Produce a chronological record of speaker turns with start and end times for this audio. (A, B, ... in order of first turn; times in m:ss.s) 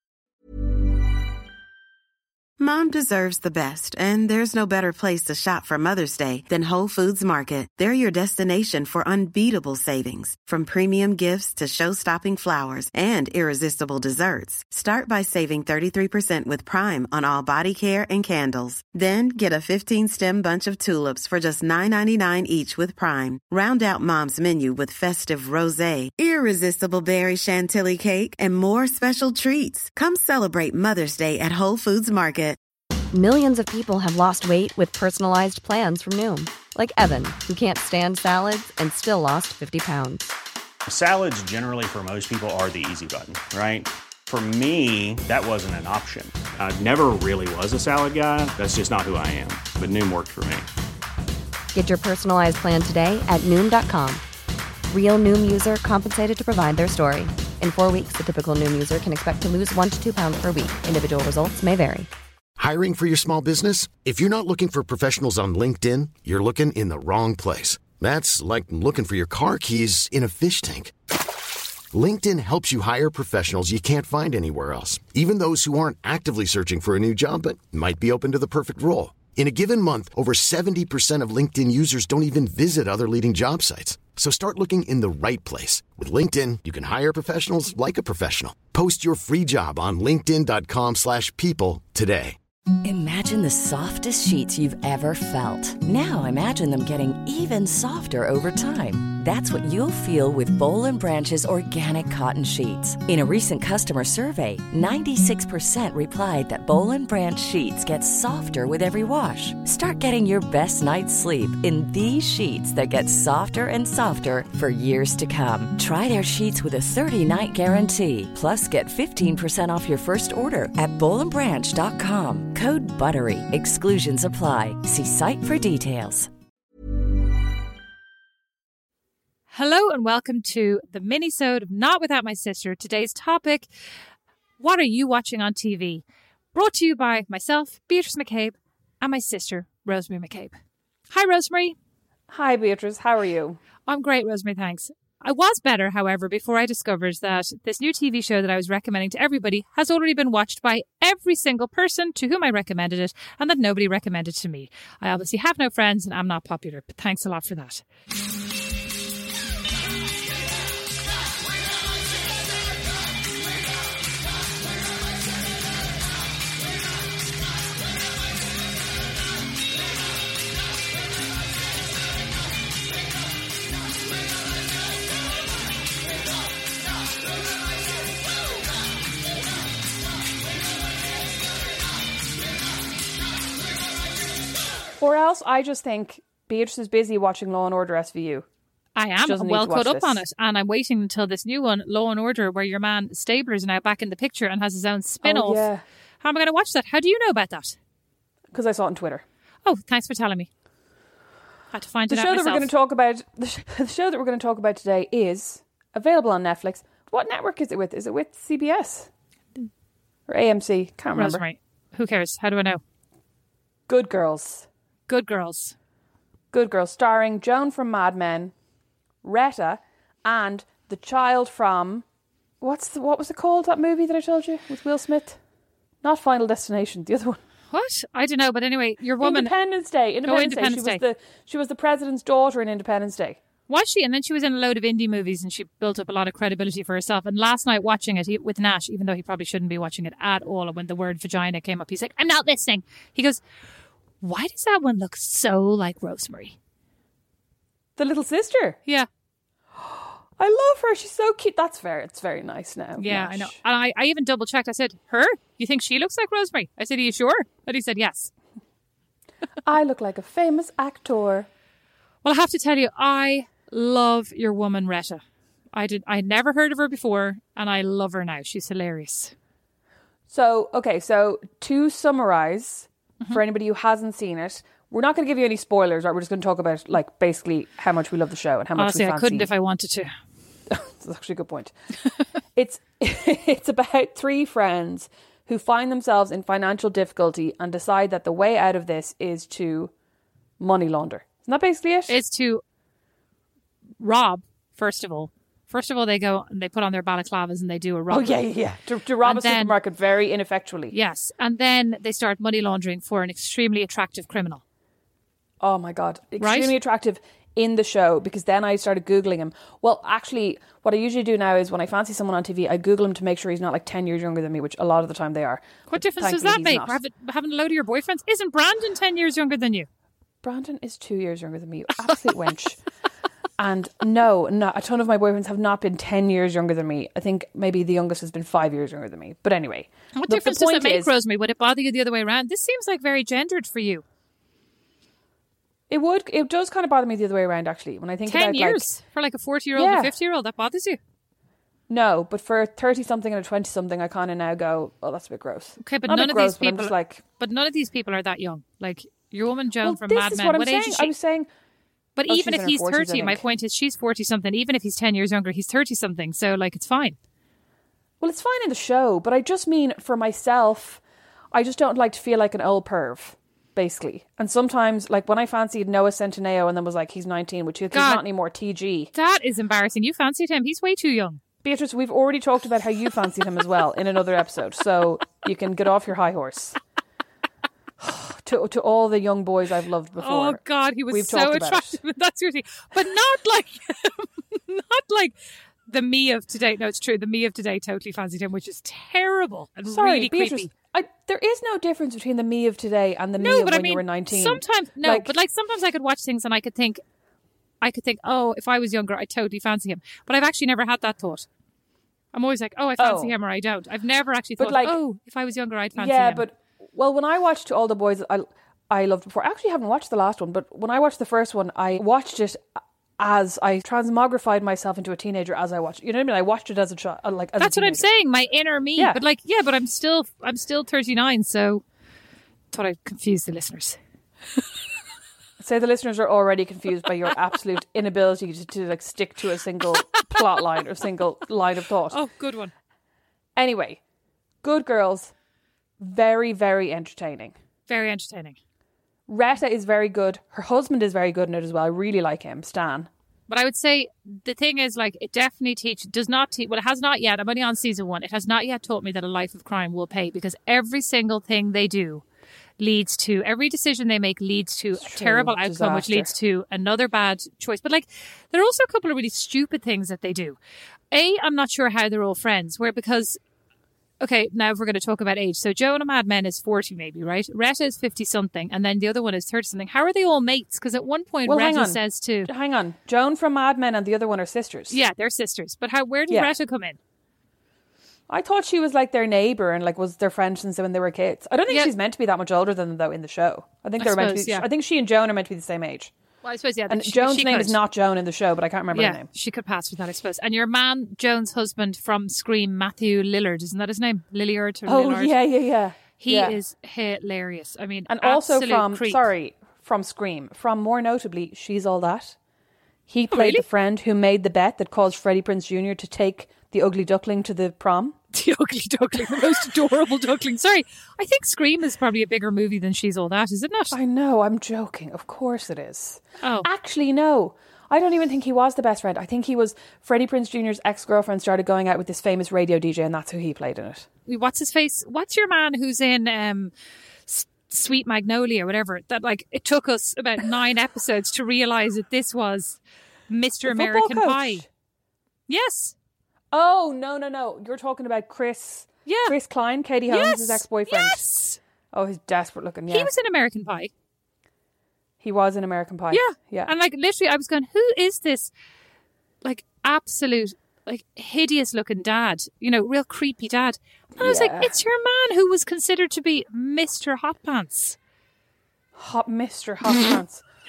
0:02.6-0:32.6 A
0:33.1-0:40.3 B
0:40.9-0:50.7 C
0:51.7-0:54.2 B
0:54.9-1:02.1 B
1:02.6-1:10.9 D
1:11.9-1:32.4 D
1:32.8-2:06.3 E
2:09.5-2:13.7 F
2:14.6-2:20.6 F
2:21.1-2:21.8 F
2:22.3-2:23.6 G
2:23.8-2:37.8 F
3:05.0-3:08.4 G
3:09.0-3:17.8 F
3:09.2-3:10.2 G
3:15.2-3:15.8 G
3:18.5-3:19.2 G
3:19.6-3:20.5 F
3:21.7-3:22.7 F
3:22.1-3:29.1 G
3:30.3-3:31.4 G
3:31.1-3:32.8 F
3:33.9-3:34.7 G
3:35.1-3:35.7 F
3:36.5-3:38.5 G
3:39.2-3:42.0 G
3:42.6-3:45.4 G
3:46.0-3:47.4 G
3:47.7-3:49.5 F
3:49.2-3:53.4 G
3:50.2-3:51.0 F
3:53.7-4:03.4 F
4:04.2-4:06.6 F
4:08.0-4:08.8 G
4:09.8-4:13.6 G
4:13.0-4:18.3 F
4:19.6-4:21.5 G
4:22.2-4:25.2 F
4:25.7-4:29.3 F
4:30.3-4:39.5 G
4:38.8-4:40.1 F
4:40.7-4:41.7 G
4:42.5-4:49.9 G
4:50.6-4:52.2 G
4:52.1-4:52.6 F
4:54.0-4:58.6 F
4:58.1-5:00.9 G
4:59.2-4:59.8 F
5:00.9-5:04.6 F
5:05.6-5:17.0 G
5:06.4-5:06.8 F
5:15.9-5:19.9 F
5:20.4-5:22.8 G
5:23.6-5:31.1 G
5:30.2-5:34.0 F
5:35.9-5:38.9 G
5:38.2-5:41.0 F
5:39.7-5:40.1 G
5:41.9-5:47.2 G
5:45.8-5:51.1 F
5:49.8-5:51.5 G
5:52.2-5:57.2 F
5:52.3-5:53.4 G
5:58.2-6:01.0 G
6:01.5-6:09.1 G
6:07.9-6:08.2 F
6:09.1-6:11.4 F
6:11.6-6:16.8 G
6:18.0-6:22.0 G
6:20.2-6:25.3 F
6:25.9-6:30.7 F
6:29.9-6:35.3 G
6:33.4-6:37.0 F
6:37.8-6:41.5 F
6:42.3-6:46.5 F
6:43.0-6:43.3 G
6:44.6-6:45.0 G
6:45.9-6:52.6 G
6:53.2-6:58.1 G
6:57.6-7:01.8 F
7:02.7-7:04.0 F
7:05.6-7:12.2 G
7:10.0-7:10.5 F
7:12.1-7:12.7 F
7:13.6-7:14.0 G
7:14.6-7:15.3 G
7:16.0-7:17.5 G
7:17.9-7:18.6 F
7:19.3-7:23.1 G
7:23.5-7:32.2 F
7:32.8-7:40.6 F
7:35.0-7:36.3 G
7:41.1-7:43.4 F
7:44.2-7:52.5 F
7:51.4-7:55.0 G
7:54.9-7:57.0 F
7:58.3-8:06.1 G
8:04.0-8:04.7 F
8:06.4-8:07.8 F
8:06.9-8:09.3 G
8:08.9-8:15.5 F
8:14.9-8:16.6 G
8:16.2-8:19.3 F
8:18.1-8:22.4 G
8:23.1-8:28.2 G
8:23.3-8:23.6 F
8:28.3-8:34.0 F
8:33.9-8:44.1 G
8:36.4-8:36.7 F
8:44.3-8:46.7 F
8:47.3-8:54.6 F
8:53.6-8:54.6 G
8:55.5-8:55.9 F
8:56.5-9:01.2 G
8:59.0-8:59.3 F
9:00.1-9:01.6 F
9:01.9-9:03.1 G
9:02.9-9:03.9 F
9:05.2-9:06.7 G
9:06.1-9:08.5 F
9:09.4-9:18.0 F
9:14.2-9:14.7 G
9:19.0-9:20.4 G